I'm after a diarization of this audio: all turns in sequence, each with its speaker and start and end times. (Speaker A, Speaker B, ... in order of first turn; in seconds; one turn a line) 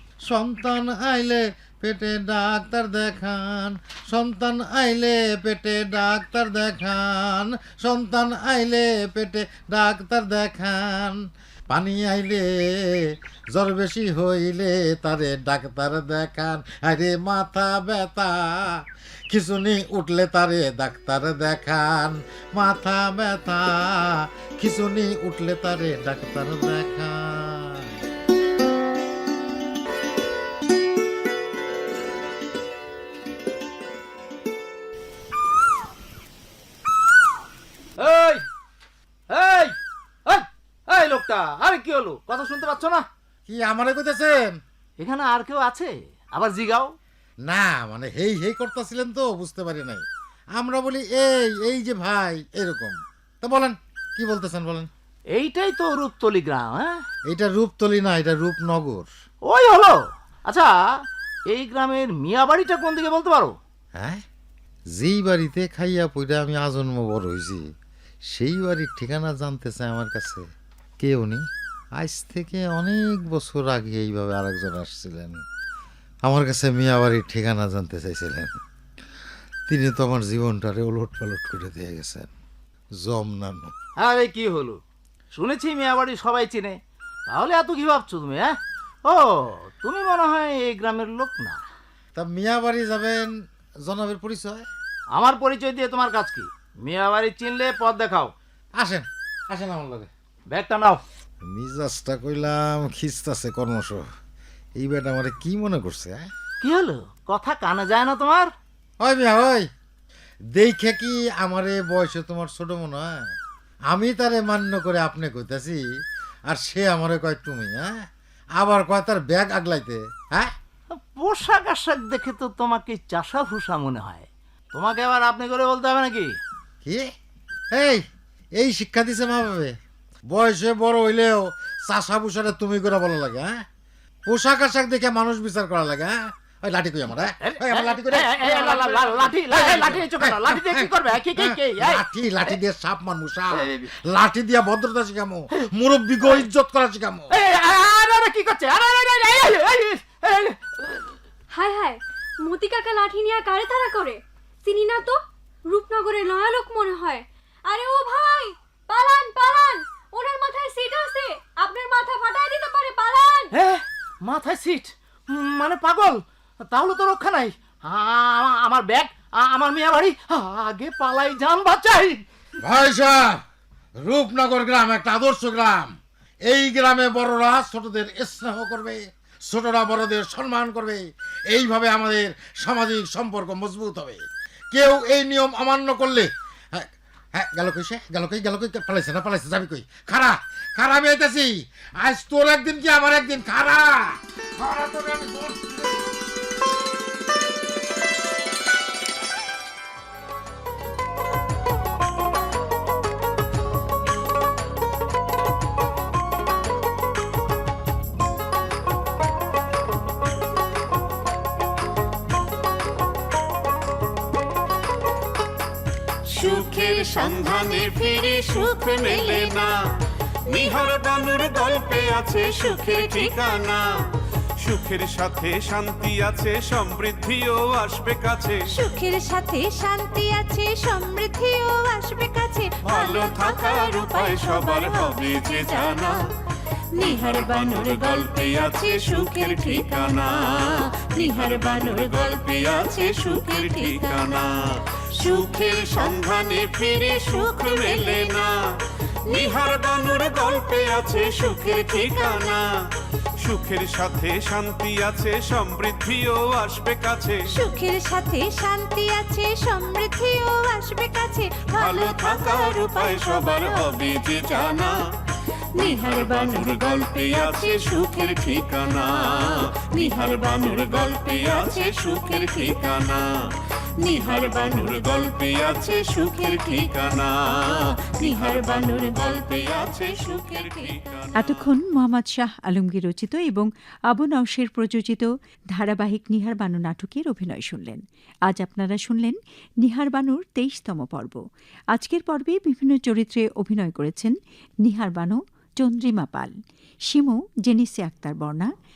Speaker A: 0.3-11.2
Speaker A: 11.7-12.5
Speaker A: 13.5-18.6
Speaker A: 19.3-23.9
Speaker A: 24.6-27.9
Speaker B: 38.0-38.5
Speaker B: 39.3-43.1
Speaker A: 43.5-44.6
Speaker B: 45.0-47.0
Speaker A: 47.5-50.0
Speaker A: 50.5-54.9
Speaker B: 55.3-57.0
Speaker A: 57.3-59.1
Speaker B: 59.5-63.6
Speaker A: 65.0-67.6
Speaker A: 68.3-70.4
Speaker A: 71.0-71.4
Speaker A: 72.0-75.4
Speaker A: 76.2-78.5
Speaker A: 79.7-82.3
Speaker A: 83.0-83.7
Speaker B: 84.0-84.8
Speaker B: 85.3-91.6
Speaker A: 92.2-93.3
Speaker A: 93.9-94.7
Speaker B: 95.1-98.3
Speaker A: 98.8-100.1
Speaker B: 100.5-101.0
Speaker A: 101.4-104.0
Speaker A: 104.8-106.2
Speaker B: 106.6-108.5
Speaker A: 109.0-109.7
Speaker A: 110.6-113.2
Speaker A: 113.9-115.8
Speaker A: 116.5-117.9
Speaker A: 118.6-120.5
Speaker B: 120.9-126.4
Speaker A: 127.7-128.0
Speaker A: 128.6-129.7
Speaker A: 130.3-133.5
Speaker A: 134.3-147.3
Speaker B: 137.4-142.6
Speaker B: 147.3-151.1
Speaker C: 151.5-163.5
Speaker B: 163.5-172.2
Speaker A: 172.6-173.4
Speaker A: 174.0-175.9
Speaker A: 176.4-196.0
Speaker D: 216.4-219.6
Speaker E: 216.4-219.7
Speaker E: 220.5-223.8
Speaker D: 222.6-223.4
Speaker E: 224.6-228.8
Speaker D: 228.7-236.2
Speaker E: 232.8-236.2
Speaker D: 237.0-240.3
Speaker E: 237.0-248.6
Speaker D: 241.0-244.2
Speaker D: 245.2-246.2
Speaker D: 247.3-248.3
Speaker E: 249.3-252.7
Speaker D: 251.5-252.6
Speaker E: 253.4-257.6
Speaker D: 257.5-264.8
Speaker E: 261.7-265.0
Speaker D: 265.8-269.0
Speaker E: 265.8-273.4
Speaker D: 269.9-273.0
Speaker D: 274.0-277.0
Speaker E: 274.0-281.6
Speaker D: 278.2-280.9
Speaker F: 281.4-291.4
Speaker F: 291.9-296.5
Speaker F: 297.1-298.7